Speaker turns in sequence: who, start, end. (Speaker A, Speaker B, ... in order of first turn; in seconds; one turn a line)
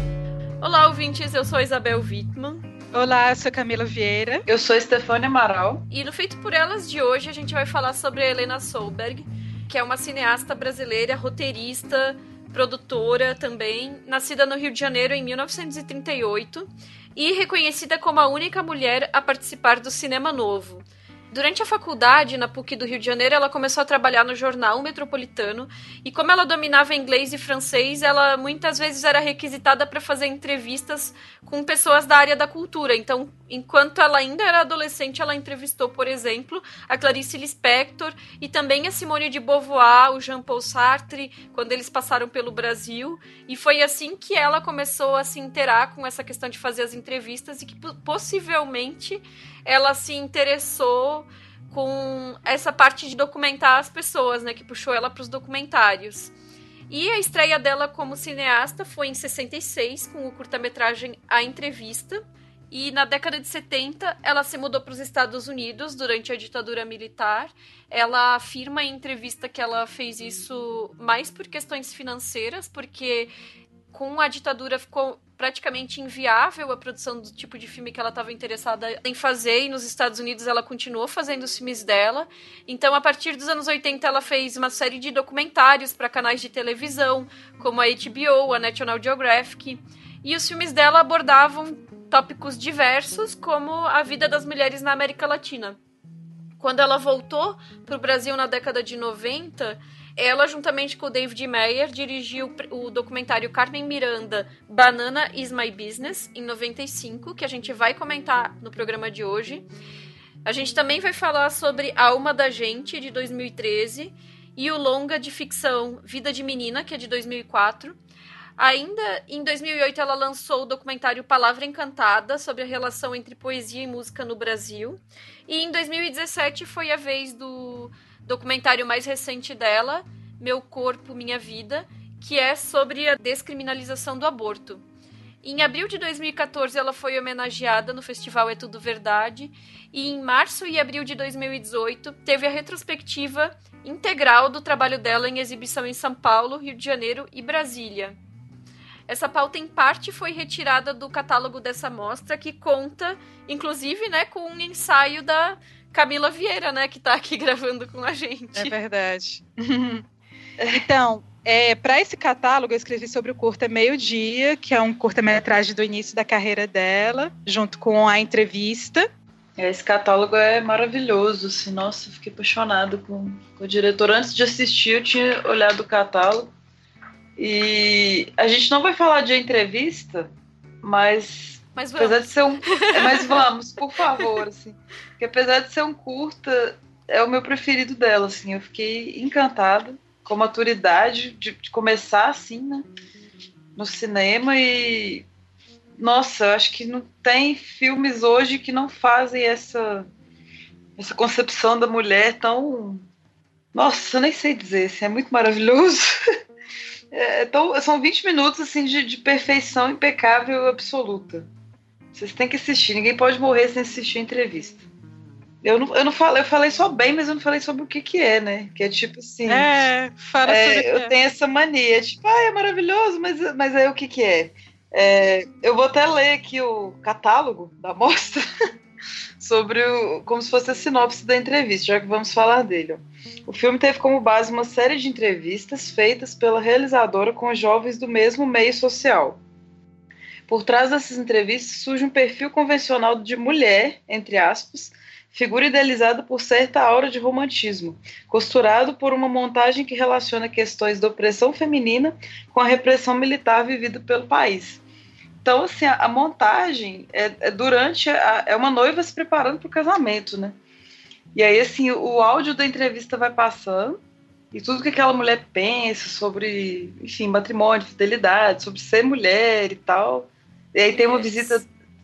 Speaker A: 0.6-2.6
Speaker B: 2.9-4.4
Speaker C: 4.5-5.8
Speaker A: 5.9-56.3
Speaker A: 56.9-73.3
Speaker A: 73.9-95.8
Speaker A: 96.6-109.7
Speaker A: 110.4-118.0
Speaker A: 118.6-134.8
Speaker A: 135.4-148.2
Speaker A: 149.1-158.8
Speaker B: 158.6-160.1
Speaker C: 160.6-160.9
Speaker B: 160.7-169.1
Speaker C: 169.6-176.5
Speaker C: 177.4-192.9
Speaker A: 181.8-183.4
Speaker C: 193.8-195.3
Speaker C: 196.0-200.1
Speaker C: 201.0-203.1
Speaker C: 203.7-206.2
Speaker C: 207.1-211.5
Speaker C: 212.1-214.8
Speaker C: 215.6-219.7
Speaker B: 219.5-221.1
Speaker C: 220.4-228.4
Speaker C: 229.4-239.4
Speaker C: 240.5-254.8
Speaker C: 255.4-260.6
Speaker C: 261.3-264.0
Speaker C: 264.5-271.6
Speaker A: 270.9-271.6